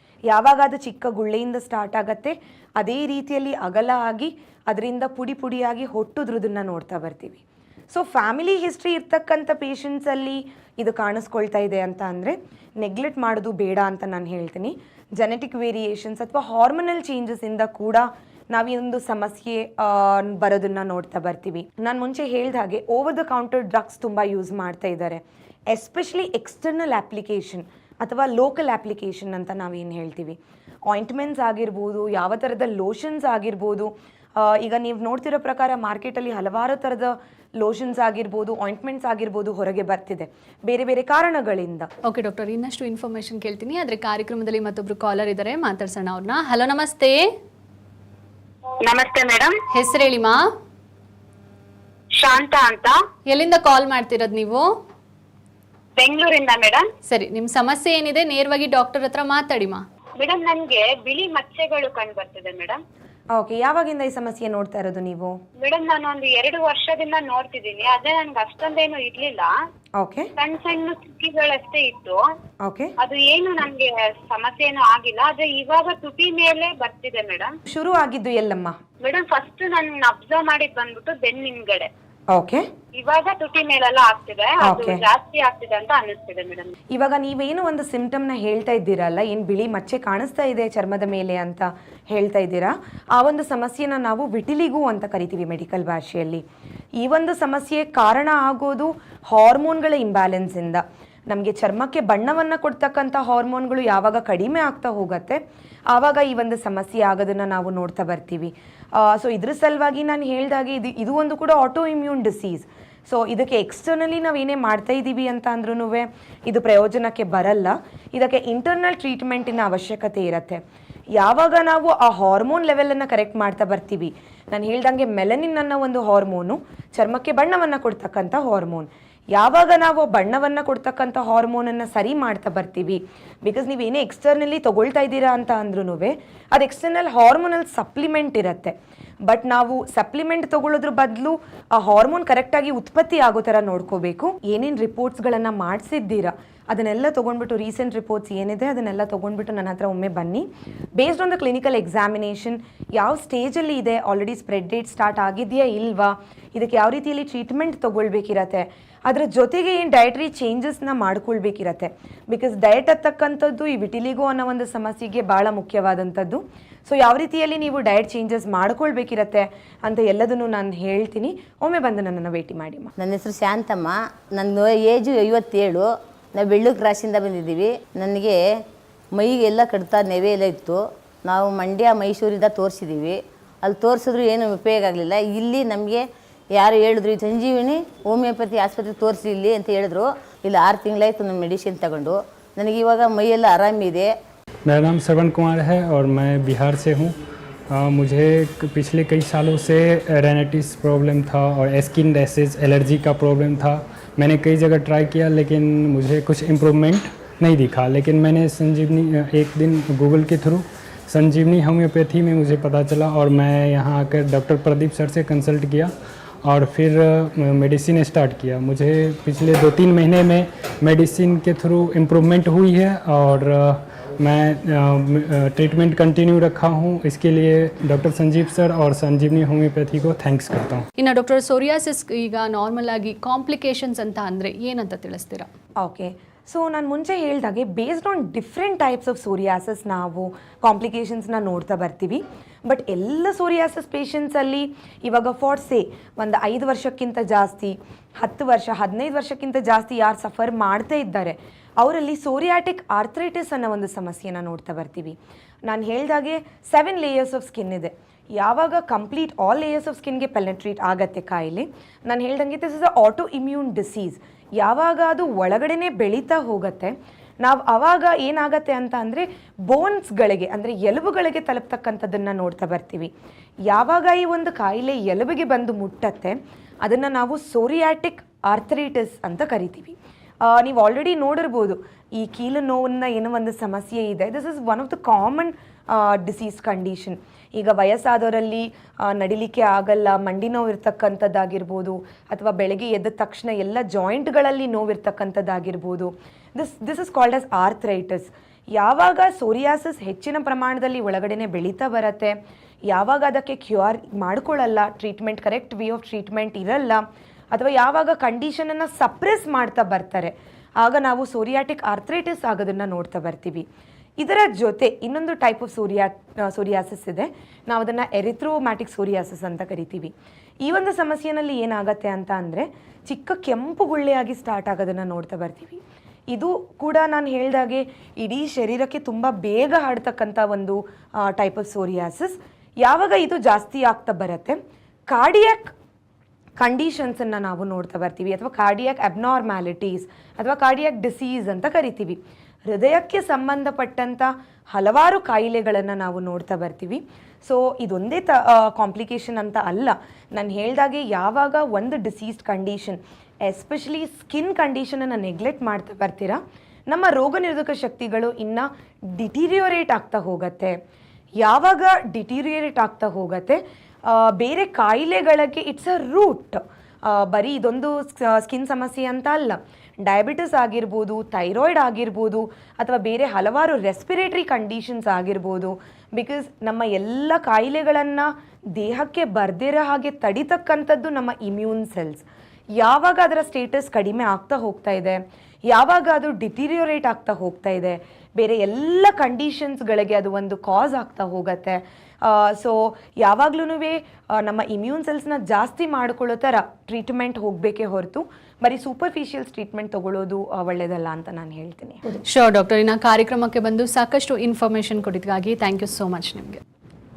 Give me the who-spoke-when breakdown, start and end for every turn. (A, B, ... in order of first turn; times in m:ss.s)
0:00.3-0:41.9 A
0:42.1-0:47.2 B
0:48.8-0:49.5 C
0:49.7-0:50.4 B
0:52.2-0:52.9 C
0:53.3-0:54.7 B
0:56.0-0:56.9 C
0:57.1-0:59.8 B
1:00.2-1:02.8 C
1:03.4-1:05.4 A
1:05.6-1:09.5 C
1:10.0-1:10.3 A
1:10.4-1:12.2 C
1:12.6-1:12.9 A
1:13.0-1:17.5 C
1:17.7-1:18.8 A
1:19.0-1:21.9 C
1:22.3-1:22.6 A
1:23.0-1:26.7 C
1:24.6-1:25.0 A
1:26.9-1:36.4 A
1:37.0-2:00.6 A
2:01.2-2:18.7 A
2:19.3-2:30.5 A
2:31.0-2:52.9 A
2:53.0-2:58.4 D
2:59.1-3:14.1 D
3:14.7-3:17.1 E
3:17.7-3:35.9 E
3:36.4-3:50.9 E
3:51.0-3:55.5 B
3:55.8-4:15.2 A
4:15.7-4:33.1 A
4:33.7-5:02.4 A
5:02.9-5:07.0 A
5:07.5-5:13.6 A
5:14.2-5:20.1 A
5:20.6-5:34.6 A
5:35.1-5:35.7 A
5:36.6-6:00.8 A
6:01.4-6:22.3 A
6:22.8-6:42.0 A
6:42.2-6:46.6 B